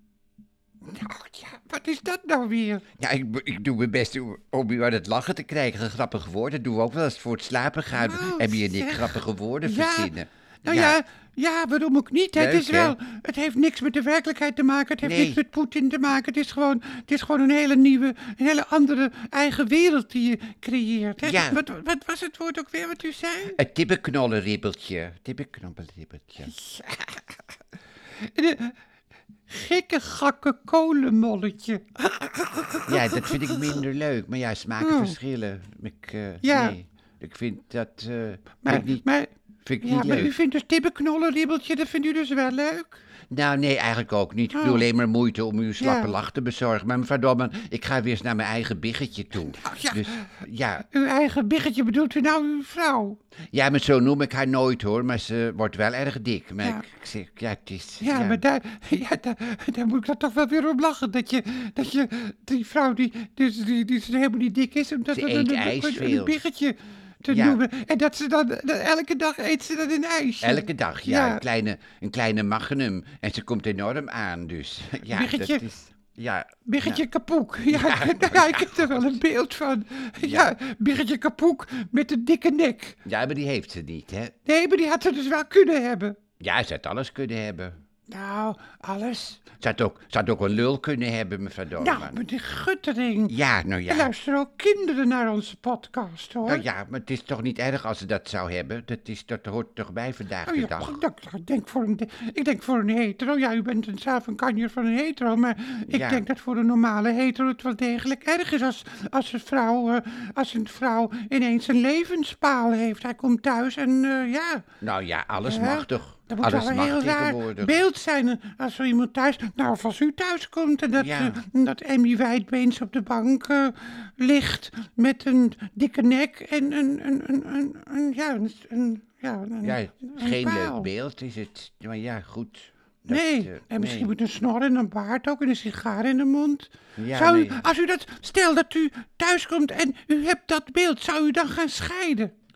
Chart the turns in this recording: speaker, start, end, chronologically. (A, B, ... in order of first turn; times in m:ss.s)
0:00.9-0:02.8 A
0:03.0-0:11.0 B
0:07.9-0:10.1 A
0:10.6-0:23.6 A
0:12.4-0:13.0 B
0:15.0-0:15.4 B
0:21.2-0:21.6 B
0:23.6-0:26.5 B
0:26.4-0:27.4 A
0:28.2-0:28.8 A
0:29.5-0:33.8 A
0:32.9-0:39.0 B
0:34.8-0:35.2 A
0:36.4-0:36.8 A
0:38.6-0:39.3 A
0:39.6-0:40.3 B
0:39.8-0:43.0 A
0:43.3-0:50.9 B
0:44.5-0:44.8 A
0:45.8-0:46.2 A
0:49.5-0:50.3 A
0:50.8-0:53.2 A
0:53.5-0:58.4 B
0:58.0-1:11.4 A
1:05.1-1:06.4 B
1:07.3-1:07.6 B
1:10.4-1:17.0 B
1:15.1-1:15.7 A
1:16.6-1:23.0 A
1:17.7-1:19.1 B
1:20.2-1:20.5 B
1:23.0-1:24.3 B
1:24.5-1:26.2 A
1:26.4-1:27.8 B
1:28.1-1:29.4 A
1:29.6-1:32.2 B
1:31.8-1:33.4 A
1:33.3-1:34.1 B
1:33.9-1:36.6 A
1:36.4-1:41.0 B
1:40.4-1:54.7 A
1:45.9-1:46.2 B
1:54.8-1:57.8 B
1:55.4-2:10.9 A
2:01.0-2:01.4 B
2:09.6-2:14.1 B
2:13.1-2:22.3 A
2:17.0-2:17.7 B